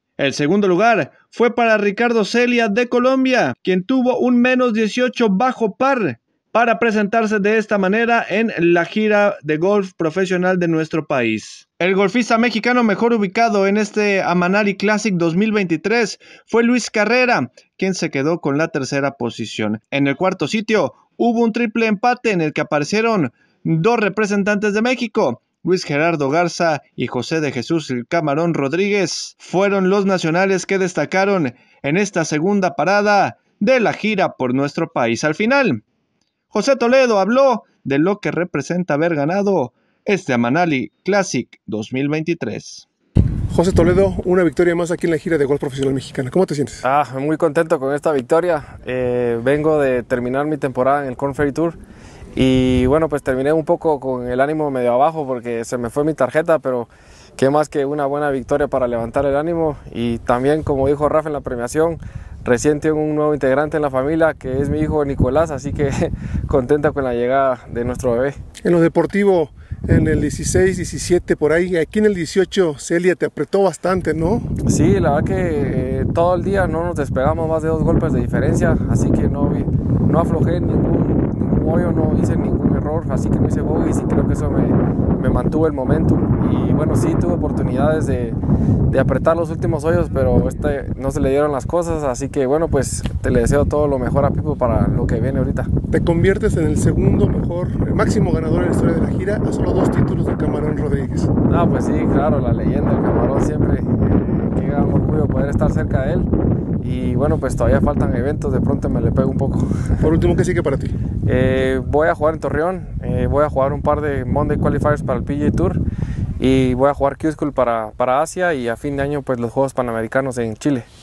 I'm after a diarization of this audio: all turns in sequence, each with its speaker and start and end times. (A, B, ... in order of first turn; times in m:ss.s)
0:00.2-0:35.8 A
0:36.5-0:42.8 A
0:43.5-0:46.8 B
0:46.8-0:51.8 C
0:52.3-1:08.4 C
1:08.6-1:14.4 B
1:14.6-1:28.4 C
1:28.9-1:35.7 C
1:35.9-1:41.3 B
1:41.5-1:46.3 C
1:46.8-1:50.0 C
1:50.0-1:50.9 B
1:51.2-1:55.8 C
1:56.4-2:00.9 C